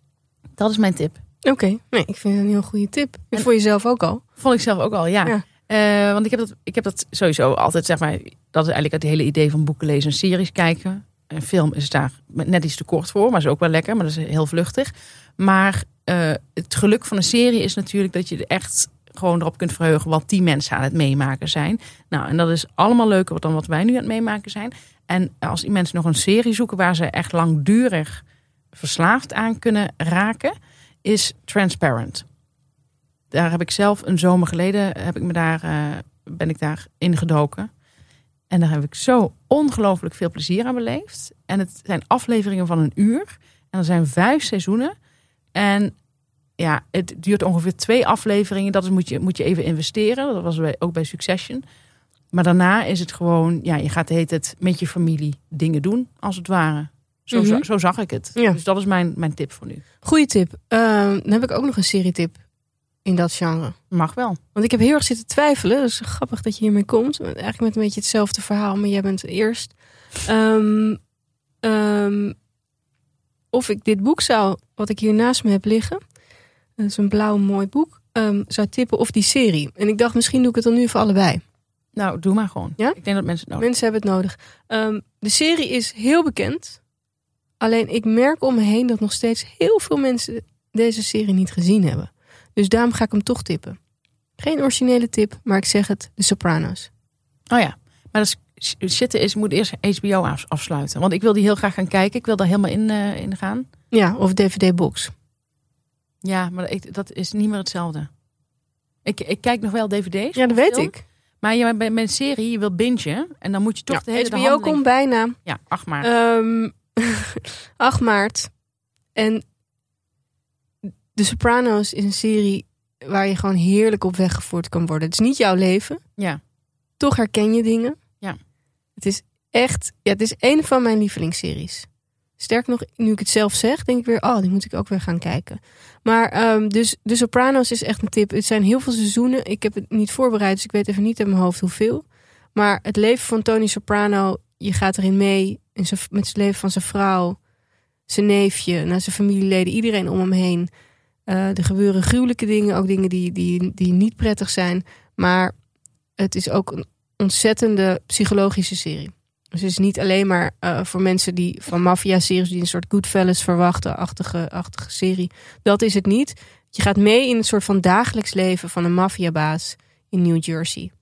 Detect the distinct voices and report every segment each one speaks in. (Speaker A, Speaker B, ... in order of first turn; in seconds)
Speaker A: 0.6-1.2, 4.4-32.2, 33.3-37.7, 38.5-44.9, 45.5-45.9, 46.6-51.6, 52.3-59.8, 63.9-64.4, 82.0-83.7, 97.5-103.7, 106.2-108.1, 109.0-114.8, 115.4-116.1
Speaker B: 1.4-4.2, 57.3-57.6, 60.0-62.4, 63.0-63.8, 64.5-71.0, 71.6-72.3, 73.5-76.0, 76.8-81.4, 83.6-86.8, 87.6-93.8, 94.4-96.9, 103.9-105.1, 110.3-111.0, 113.9-115.4, 116.0-118.5, 119.1-119.4, 121.1-126.0, 127.0-128.0, 129.0-131.9, 132.4-147.4, 148.1-150.7, 151.2-155.5, 156.2-170.9